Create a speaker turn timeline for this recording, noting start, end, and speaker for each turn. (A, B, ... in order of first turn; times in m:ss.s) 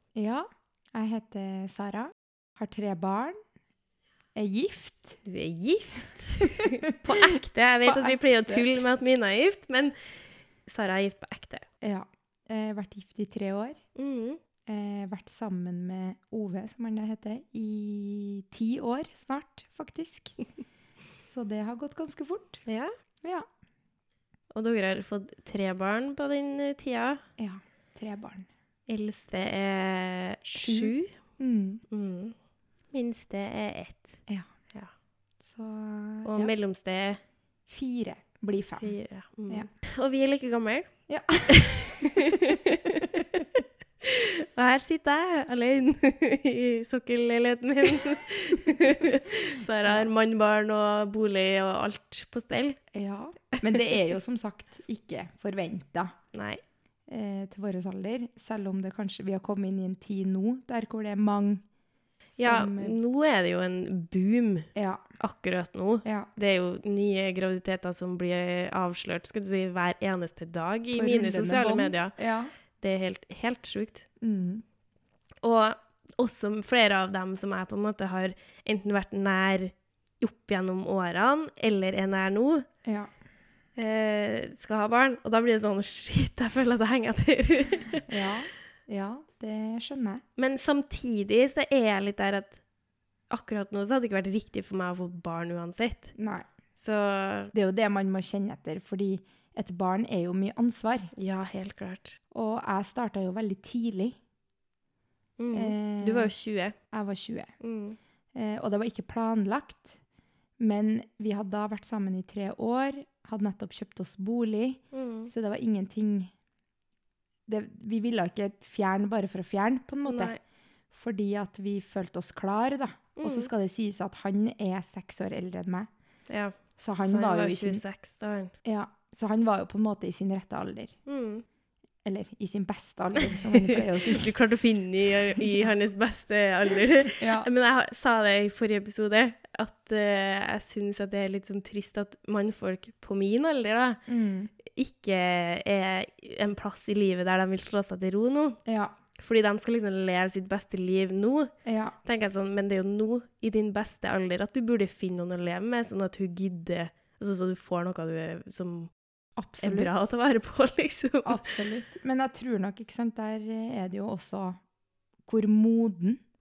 0:00.1-0:03.4 A
0:04.3-0:05.2 A
0:05.2-0:09.9 B
0:06.4-0:07.3 A
0:07.8-0:08.7 A
0:10.6-0:11.6 B
0:11.8-0:13.8 A
0:14.0-0:14.4 B
0:14.7-0:20.3 A
0:21.2-0:22.6 A
0:22.6-0:22.9 B
0:24.5-0:27.2 B
0:27.4-0:28.5 A
0:28.9-0:31.1 B
0:30.4-0:31.8 A
0:31.9-0:32.3 B
0:32.9-0:34.2 B
0:35.4-0:36.5 A
0:36.2-0:37.2 B
0:37.7-0:38.9 A
0:38.8-0:40.9 B
0:41.1-0:43.2 A
0:41.5-0:43.5 B
0:44.0-0:52.8 B
0:52.9-0:56.1 A
0:56.3-0:56.6 B
0:57.1-1:01.6 A
1:02.4-1:03.0 A
1:02.4-1:12.1 B
1:04.7-1:05.0 A
1:10.9-1:12.5 A
1:12.8-1:14.0 B
1:14.2-1:14.6 A
1:15.4-1:22.6 B
1:22.8-1:23.1 A
1:23.8-1:28.1 B
1:28.1-1:30.2 A
1:30.4-1:32.6 B
1:33.3-1:36.1 B
1:36.2-1:36.4 A
1:36.8-1:37.5 B
1:37.5-1:41.1 A
1:41.1-1:42.2 B
1:42.3-1:44.2 A
1:45.4-1:46.8 B
1:45.5-1:46.3 A
1:46.9-1:47.5 A
1:47.6-1:48.0 B
1:48.3-1:50.0 A
1:50.6-1:56.3 A
1:54.9-1:55.3 B
1:57.5-2:00.3 A
2:00.0-2:00.4 B
2:00.9-2:05.9 A
2:03.2-2:03.5 B
2:06.3-2:08.5 B
2:06.8-2:07.8 A
2:08.6-2:10.9 A
2:11.0-2:11.4 B
2:12.0-2:14.3 A
2:13.2-2:24.0 B
2:17.2-2:17.5 A
2:24.1-2:24.5 A
2:24.6-2:28.6 B
2:28.6-2:28.9 A
2:29.2-2:31.5 B
2:31.6-2:32.0 A
2:32.0-2:38.9 B
2:39.4-2:40.0 A
2:39.6-2:41.6 B
2:41.2-2:44.6 A
2:45.2-2:46.2 A